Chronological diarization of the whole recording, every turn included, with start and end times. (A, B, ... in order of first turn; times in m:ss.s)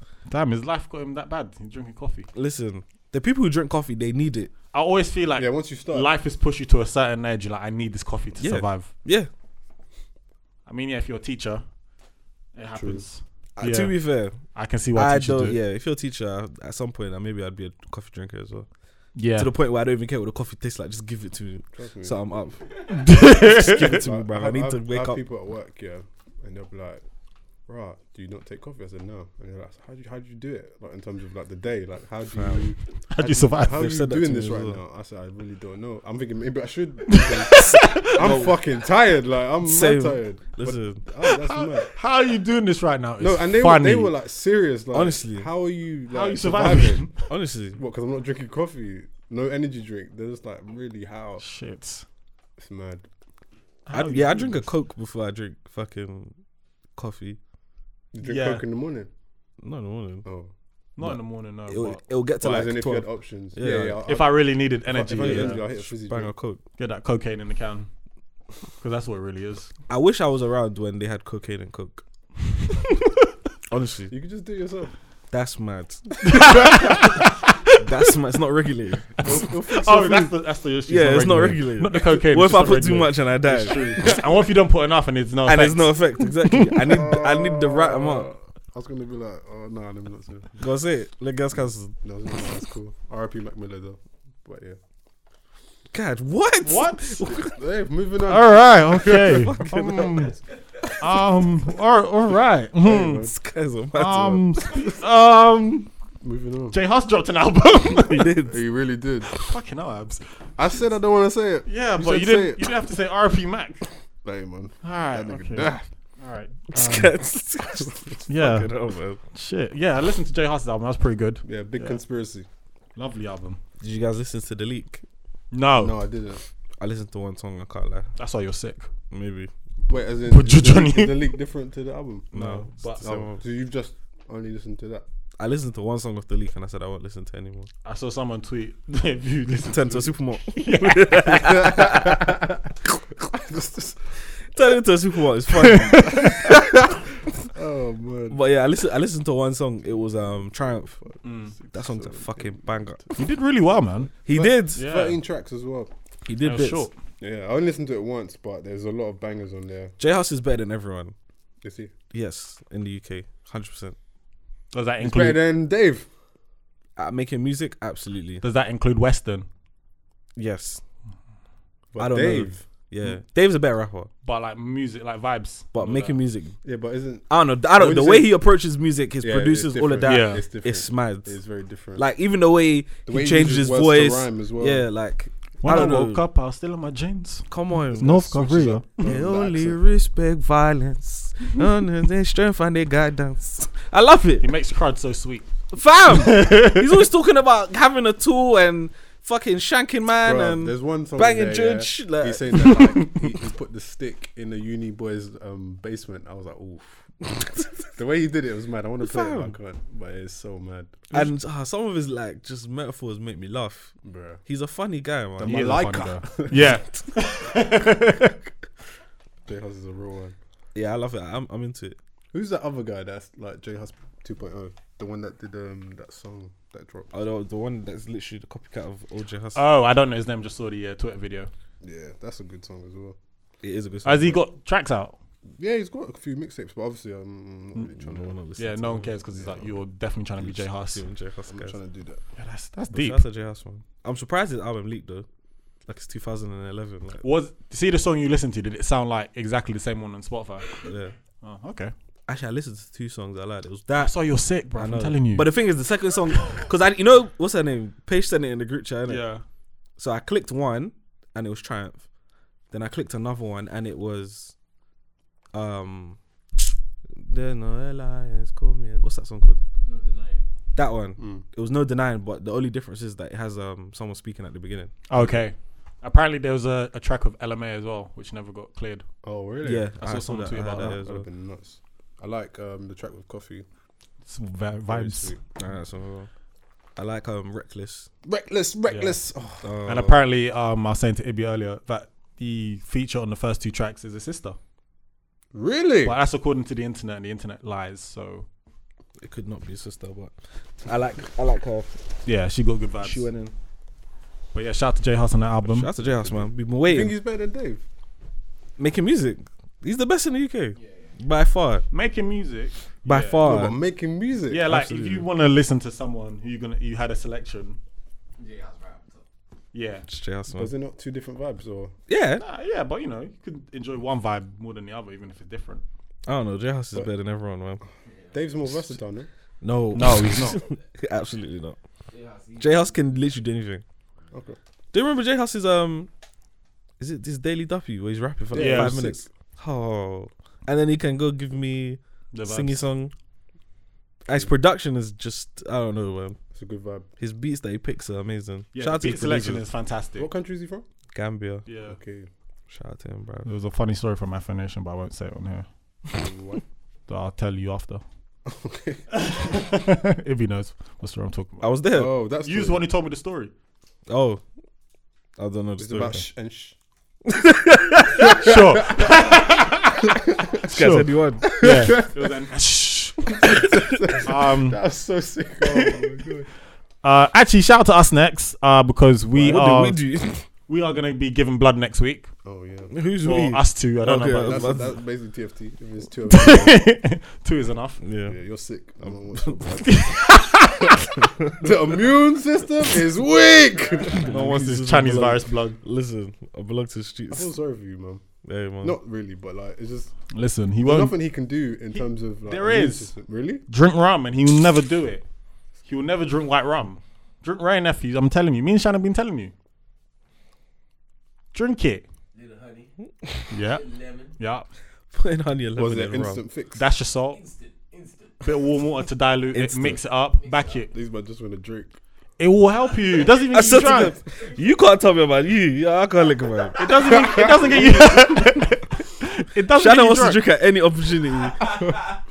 0:00.3-0:02.3 A
0:02.3-0:04.5 B
0:04.7-0:08.9 A
0:05.4-0:06.1 C
0:08.4-0:09.3 B
0:10.7-0:11.6 A
0:12.5-0:14.0 A
0:12.8-0:13.0 C
0:13.6-0:14.4 B
0:14.5-0:15.6 A
0:15.0-0:18.7 B
0:19.2-0:19.5 A
0:19.4-0:25.2 B
0:21.7-0:22.4 C
0:22.9-0:24.0 A
0:23.9-0:27.0 C
0:27.7-0:41.9 C
0:32.3-0:32.7 B
0:33.1-0:33.9 A
0:33.7-0:34.8 B
0:37.1-0:38.4 A
0:37.7-0:38.6 B
0:39.6-0:41.0 B
0:41.2-0:44.1 A
0:43.2-0:47.1 C
0:44.9-0:45.5 B
0:46.1-0:47.2 A
0:47.3-0:47.8 B
0:47.8-0:51.4 C
0:51.4-0:52.0 A
0:52.6-0:53.1 C
0:53.9-0:54.7 A
0:53.9-0:56.4 B
0:57.0-0:57.4 B
0:58.1-0:59.1 C
0:58.2-0:58.6 A
0:59.6-1:00.3 B
1:00.2-1:00.5 C
1:01.0-1:02.0 A
1:01.0-1:04.0 B
1:02.4-1:06.3 C
1:04.0-1:05.6 A
1:05.1-1:06.6 B
1:06.8-1:07.9 A
1:08.8-1:09.7 A
1:09.9-1:12.0 B
1:12.7-1:13.1 A
1:13.7-1:14.1 B
1:14.1-1:15.0 C
1:15.3-1:16.7 B
1:16.2-1:17.8 A
1:17.8-1:19.5 B
1:19.2-1:20.3 C
1:19.8-1:27.0 A
1:20.9-1:24.0 B
1:23.6-1:24.3 C
1:25.4-1:28.3 B
1:26.8-1:30.6 C
1:30.6-1:32.0 B
1:32.0-1:34.8 C
1:35.9-1:37.6 B
1:36.6-1:37.2 A
1:37.3-1:38.7 C
1:38.3-1:40.4 A
1:39.0-1:40.3 B
1:40.9-1:43.3 A
1:42.8-1:43.3 C
1:43.2-1:44.5 B
1:43.9-1:45.9 A
1:46.2-1:46.8 C
1:46.7-1:48.4 A
1:48.0-1:48.6 B
1:48.5-1:49.4 C
1:49.3-1:50.3 A
1:50.6-1:52.7 C
1:51.7-1:53.9 A
1:54.2-1:55.9 C
1:54.8-1:57.1 A
1:56.7-1:59.2 B
1:58.3-1:58.7 A
1:59.3-2:02.0 A
2:01.4-2:02.5 C
2:03.0-2:03.6 A
2:03.8-2:05.0 B
2:05.5-2:06.0 A
2:05.8-2:06.4 C
2:06.8-2:08.1 B
2:08.2-2:08.9 A
2:09.1-2:09.5 B
2:09.8-2:11.3 A
2:09.9-2:12.3 C
2:12.3-2:13.0 A
2:12.3-2:13.4 B
2:13.0-2:15.0 C
2:15.4-2:17.7 B
2:17.8-2:21.5 A
2:19.7-2:22.3 B
2:21.2-2:22.6 C
2:23.3-2:24.0 C
2:24.5-2:26.8 B
2:25.6-2:26.3 A
2:26.2-2:26.5 C
2:27.5-2:28.4 C
2:28.3-2:31.0 B
2:31.0-2:33.1 C
2:31.2-2:31.5 A
2:31.7-2:33.2 B
2:33.2-2:34.1 A
2:34.3-2:34.9 B
2:34.3-2:35.9 C
2:34.8-2:35.2 A
2:36.2-2:36.9 B
2:36.4-2:36.9 A
2:37.2-2:40.0 C
2:40.0-2:41.2 B
2:41.6-2:41.9 C
2:42.1-2:44.0 B
2:44.7-2:45.4 A
2:45.0-2:46.1 C
2:47.0-2:48.4 B
2:48.4-2:49.5 A
2:50.4-2:50.8 B
2:51.9-2:52.6 C
2:52.0-2:54.1 B
2:54.2-2:56.2 A
2:55.7-2:56.6 B
2:56.6-2:58.3 C
2:57.3-3:01.4 B
2:59.2-3:02.1 C
3:00.0-3:00.4 A
3:02.0-3:06.2 B
3:03.1-3:04.8 C
3:05.6-3:09.0 A
3:07.5-3:14.5 B
3:09.0-3:09.8 C
3:14.4-3:15.5 A
3:15.7-3:23.0 B
3:16.1-3:17.1 A
3:20.2-3:27.4 C
3:22.7-3:23.3 A
3:27.9-3:31.3 C
3:29.0-3:29.6 B
3:31.1-3:35.9 B
3:34.0-3:34.4 C
3:35.4-3:36.6 C
3:35.5-3:38.4 A
3:39.5-3:40.4 C
3:40.8-3:42.0 B
3:42.3-3:47.1 C
3:47.1-3:49.6 B
3:49.5-3:51.5 A
3:51.8-3:53.2 C
3:53.6-3:54.4 B
3:54.0-3:55.2 A
3:55.6-3:58.4 C
3:58.0-3:59.7 B
3:58.6-4:01.0 A
4:00.4-4:01.8 B
4:01.5-4:02.2 C
4:02.4-4:03.2 A
4:02.9-4:05.3 B
4:05.9-4:07.2 B
4:07.2-4:10.8 A
4:10.8-4:11.1 B
4:11.4-4:11.9 A
4:12.3-4:14.2 B
4:14.0-4:15.5 A
4:14.8-4:19.3 B
4:19.1-4:19.4 A
4:20.0-4:22.0 B
4:22.7-4:24.6 B
4:25.5-4:26.2 B
4:27.1-4:29.6 B
4:29.8-4:30.4 D
4:30.8-4:35.3 B
4:31.2-4:31.4 C
4:35.1-4:39.1 A
4:39.2-4:39.9 C
4:39.6-4:41.3 B
4:40.0-4:41.0 A
4:40.9-4:43.7 C
4:44.3-4:45.4 A
4:44.9-4:45.4 C
4:45.6-4:46.3 B
4:47.0-4:48.1 B
4:48.2-4:49.7 C
4:48.9-4:49.2 A
4:49.6-4:50.2 B
4:49.8-4:54.6 A
4:55.5-4:56.2 C
4:56.0-4:58.5 A
4:59.2-5:01.9 B
5:02.2-5:03.3 A
5:03.0-5:03.5 B
5:04.5-5:06.0 A
5:05.6-5:07.2 B
5:06.8-5:07.8 C
5:08.8-5:11.8 B
5:10.8-5:11.2 D
5:11.9-5:13.5 A
5:13.0-5:13.8 B
5:13.4-5:14.7 C
5:14.5-5:17.8 A
5:14.7-5:15.3 B
5:18.4-5:19.2 D
5:19.7-5:20.1 A
5:20.1-5:20.7 B
5:20.5-5:21.9 C
5:22.1-5:22.4 B
5:22.4-5:25.8 A
5:26.3-5:27.8 B
5:28.0-5:28.4 D
5:28.3-5:29.3 C
5:29.6-5:31.8 B
5:29.9-5:30.6 A
5:32.1-5:33.1 D
5:32.6-5:33.8 B
5:34.3-5:34.6 C
5:34.9-5:36.1 B
5:37.0-5:43.1 B
5:38.5-5:39.3 C
5:38.5-5:39.0 A
5:42.3-5:42.8 A
5:44.3-5:46.4 B
5:46.5-5:47.1 C
5:47.2-5:49.6 B
5:48.7-5:50.3 A
5:50.2-5:50.9 C
5:51.1-5:51.6 B
5:51.7-5:52.0 A
5:51.9-5:52.3 C
5:52.7-5:53.5 B
5:53.4-5:55.7 A
5:56.1-5:56.6 C
5:57.1-5:58.0 A
5:58.5-5:59.1 C
5:59.1-6:01.8 A
6:01.6-6:02.1 B
6:01.9-6:02.8 C
6:02.4-6:03.5 A
6:04.1-6:04.4 B
6:05.4-6:06.2 B
6:05.8-6:06.8 C
6:07.3-6:08.0 B
6:08.0-6:10.1 A
6:08.2-6:09.3 C
6:10.2-6:10.5 C
6:10.6-6:11.6 B
6:10.7-6:14.8 A
6:11.4-6:12.2 C
6:13.3-6:16.5 C
6:15.7-6:15.9 A
6:17.0-6:20.0 A
6:19.4-6:20.4 B
6:20.7-6:22.3 A
6:22.4-6:22.9 C
6:22.9-6:25.0 B
6:23.2-6:24.8 A
6:24.4-6:26.8 C
6:26.3-6:28.0 A
6:28.0-6:28.4 B
6:28.3-6:30.3 C
6:29.8-6:31.1 A
6:31.5-6:34.4 C
6:34.2-6:37.5 B
6:34.2-6:35.8 A
6:37.3-6:38.2 C
6:38.4-6:39.0 B
6:38.8-6:40.1 C
6:40.3-6:41.2 A
6:40.8-6:43.6 C
6:41.9-6:43.1 A
6:43.7-6:45.2 A
6:45.8-6:49.5 A
6:51.5-6:52.0 A
6:52.3-6:52.9 D
6:53.5-6:54.7 A
6:53.6-6:54.3 D
6:55.1-6:56.4 B
6:55.8-6:56.8 C
6:56.8-6:57.4 A
6:57.3-6:58.6 D
6:58.4-7:00.9 A
6:59.5-7:00.0 B
7:00.4-7:00.9 D
7:00.9-7:02.0 C
7:02.4-7:04.1 A
7:03.5-7:06.9 B
7:04.1-7:04.6 D
7:06.8-7:10.4 A
7:07.1-7:08.2 C
7:09.7-7:11.8 B
7:11.6-7:12.0 D